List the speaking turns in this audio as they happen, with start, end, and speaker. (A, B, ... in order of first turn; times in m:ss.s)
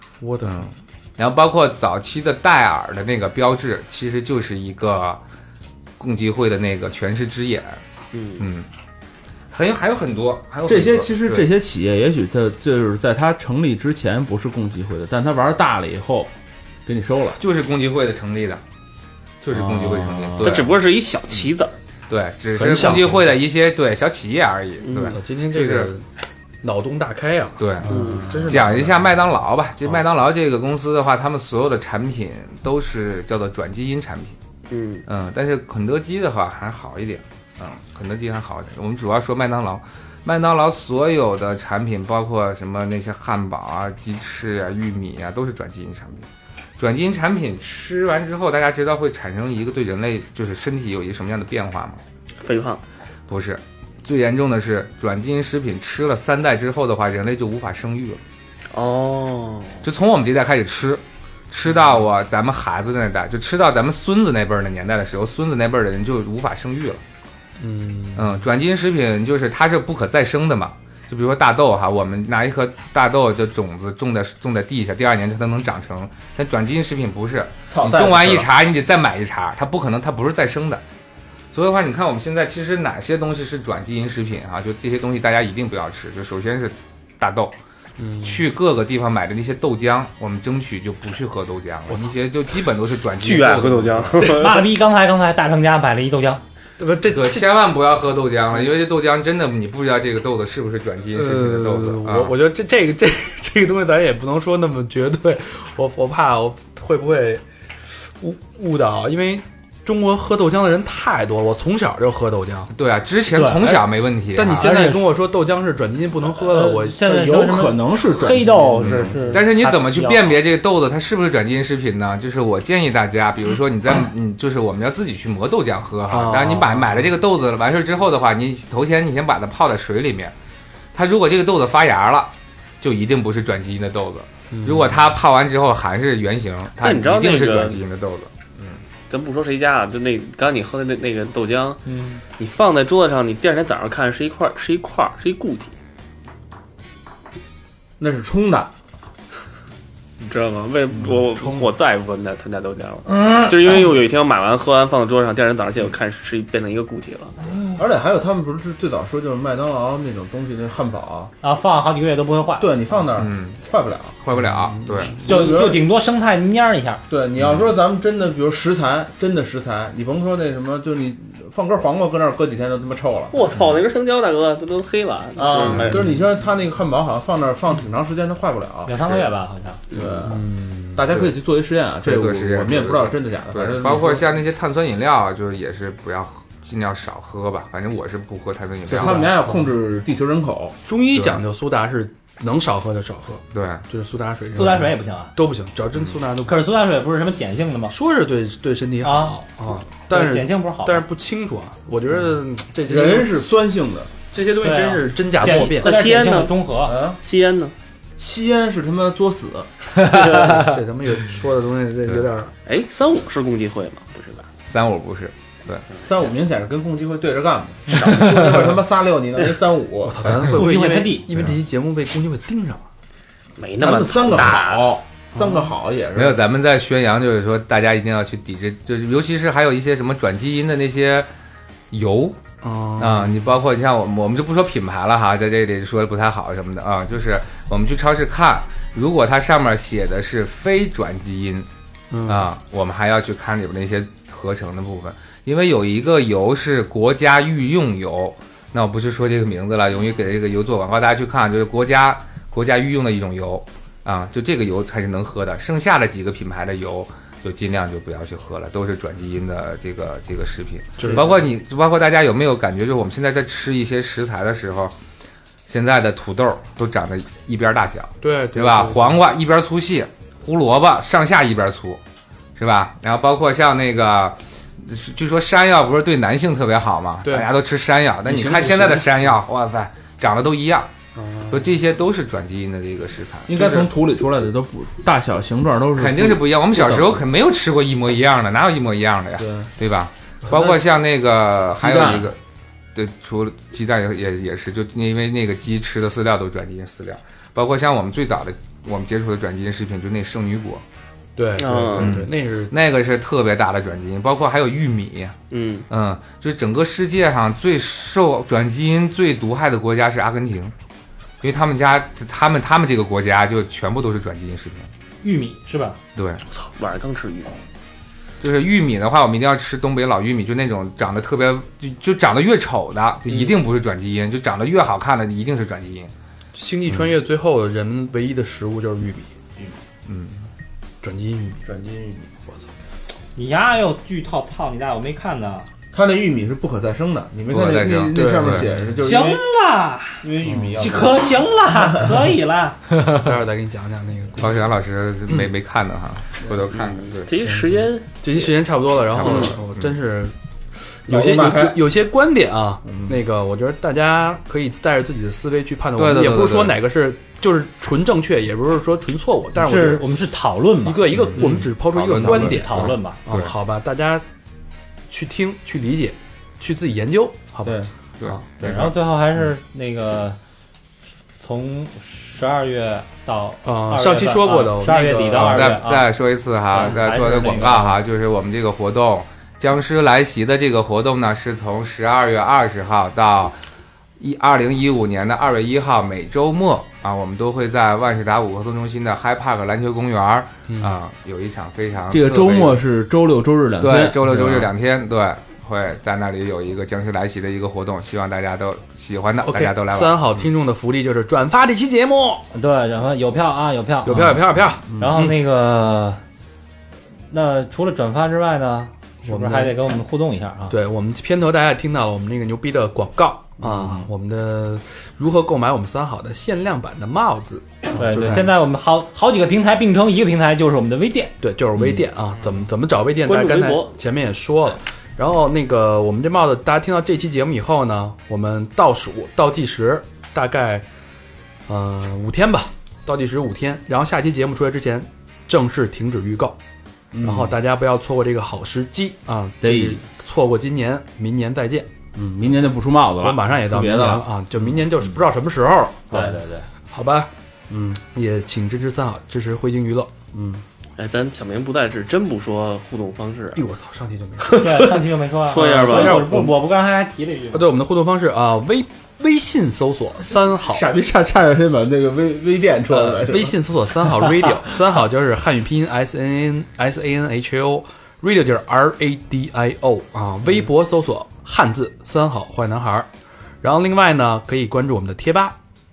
0:00.2-0:00.7 A
0:00.4-0:05.2 B
0:06.0-0:07.8 B
0:08.1-0:08.4 C
0:08.4-0:08.7 B
0:09.5-0:11.4 B
0:10.7-0:16.3 D
0:16.9-0:17.4 D
0:17.4-0:18.6 B
0:19.4-0:20.7 B
0:19.5-0:20.7 D
0:20.4-0:21.7 C
0:22.1-0:25.9 B
0:22.6-0:23.3 A
0:24.8-0:25.2 C
0:25.1-0:26.1 A
0:26.6-0:29.1 A
0:27.6-0:34.4 B
0:27.8-0:28.5 C
0:28.2-0:28.6 D
0:34.7-0:35.0 C
0:35.1-0:46.3 B
0:46.8-0:52.0 B
0:52.4-0:52.8 C
0:53.3-0:58.2 B
0:58.7-0:59.8 C
0:59.8-1:07.0 B
1:07.6-1:08.5 A
1:08.2-1:20.8 B
1:17.7-1:18.5 D
1:21.5-1:27.6 B
1:28.0-1:28.5 A
1:28.2-1:34.3 B
1:33.2-1:34.6 C
1:34.2-1:36.4 E
1:36.8-1:37.5 A
1:37.1-1:42.3 B
1:41.1-1:52.7 A
1:52.7-1:54.7 B
1:53.3-1:53.8 E
1:54.3-1:57.1 A
1:54.6-1:55.1 E
1:56.4-2:00.4 E
1:57.0-1:59.4 D
1:58.8-2:10.3 B
2:06.1-2:07.1 A
2:10.9-2:18.8 B
2:14.5-2:15.1 A
2:16.8-2:17.8 C
2:19.1-2:21.8 C
2:21.9-2:22.2 E
2:22.4-2:25.8 C
2:28.0-2:28.7 D
2:30.2-2:37.4 C
2:31.0-2:31.7 D
2:37.8-2:41.3 D
2:41.4-2:42.8 E
2:42.6-2:44.2 D
2:43.2-2:43.6 B
2:44.2-2:45.2 B
2:44.3-2:45.3 A
2:45.2-2:47.0 E
2:45.3-2:45.8 D
2:47.1-2:53.4 D
2:53.3-2:56.1 C
2:55.4-2:59.3 D
2:55.6-2:55.9 B
2:58.9-2:59.8 E
2:59.9-3:04.3 D
3:00.3-3:01.1 A
3:02.0-3:09.3 B
3:08.9-3:10.8 D
3:08.9-3:09.6 A
3:10.9-3:16.7 A
3:11.1-3:11.4 B
3:13.5-3:13.8 B
3:14.6-3:15.4 E
3:16.4-3:18.0 E
3:17.9-3:23.3 A
3:19.0-3:19.4 E
3:20.1-3:21.0 E
3:22.9-3:24.1 D
3:24.3-3:25.9 A
3:24.6-3:27.0 E
3:25.4-3:26.6 C
3:26.8-3:27.2 D
3:27.2-3:27.7 C
3:28.2-3:29.8 D
3:30.0-3:30.6 C
3:30.5-3:32.5 A
3:32.7-3:34.5 C
3:34.7-3:35.8 B
3:36.0-3:40.2 D
3:37.9-3:38.4 C
3:40.0-3:42.9 A
3:40.4-3:41.3 E
3:43.6-3:45.0 C
3:43.8-3:46.4 D
3:45.4-3:45.7 A
3:46.2-3:51.3 B
3:51.9-3:52.4 B
3:52.6-3:53.5 A
3:53.0-4:01.7 B
4:02.1-4:02.5 A
4:02.3-4:25.0 B
4:21.0-4:21.4 A
4:25.7-4:32.0 B
4:28.2-4:29.2 A
4:32.6-4:40.9 B
4:37.2-4:37.5 A
4:38.2-4:39.4 A
4:41.2-4:41.8 A
4:41.5-4:43.9 B
4:43.5-4:47.2 D
4:46.0-4:52.4 B
4:49.4-4:49.7 D
4:51.8-4:52.3 D
4:53.0-5:00.8 B
5:01.4-5:02.7 A
5:01.6-5:02.2 C
5:02.0-5:05.4 B
5:05.5-5:05.9 C
5:05.9-5:10.7 B
5:11.4-5:14.9 B
5:15.2-5:16.0 E
5:16.2-5:16.4 B
5:16.5-5:17.6 C
5:18.4-5:26.1 B
5:26.6-5:29.4 A
5:30.1-5:30.5 B
5:31.0-5:31.6 A
5:31.6-5:32.3 D
5:33.4-5:35.7 E
5:35.9-5:39.4 D
5:37.5-5:38.7 B
5:38.1-5:38.9 A
5:39.0-5:42.8 E
5:40.2-5:41.3 D
5:40.4-5:40.8 A
5:43.1-5:44.7 A
5:44.4-5:47.3 B
5:46.7-5:48.5 C
5:47.4-5:50.4 A
5:49.1-5:49.9 B
5:49.2-5:49.5 C
5:51.0-6:00.1 A
5:51.1-5:51.8 D
5:56.0-5:56.8 B
5:59.6-6:01.4 E
6:00.8-6:04.2 A
6:01.1-6:03.5 B
6:02.1-6:03.2 E
6:05.1-6:08.4 A
6:07.6-6:07.9 D
6:08.2-6:09.0 B
6:08.6-6:10.4 E
6:11.4-6:16.1 E
6:13.6-6:15.6 A
6:15.4-6:23.6 B
6:16.7-6:18.0 E
6:24.2-6:32.8 B
6:30.7-6:31.0 A
6:32.1-6:34.7 D
6:33.8-6:40.3 B
6:39.4-6:42.5 A
6:42.5-6:46.2 E
6:44.0-6:45.0 A
6:44.9-6:45.2 D
6:47.3-6:50.8 E
6:49.2-6:49.8 A
6:50.7-6:58.6 A
6:53.6-6:54.1 D
6:57.9-7:01.4 E
7:01.4-7:10.9 A
7:03.2-7:03.9 C
7:11.7-7:16.6 A
7:17.1-7:17.5 D
7:17.2-7:21.9 A
7:19.6-7:20.0 D
7:22.2-7:24.3 D
7:23.2-7:26.4 A
7:26.1-7:26.7 E
7:26.9-7:30.1 A
7:30.3-7:30.6 D
7:31.0-7:33.6 C
7:33.5-7:36.5 A
7:34.4-7:36.4 C
7:34.6-7:37.7 E
7:37.5-7:40.9 A
7:40.7-7:43.6 D
7:42.9-7:53.1 A
7:53.6-7:55.6 A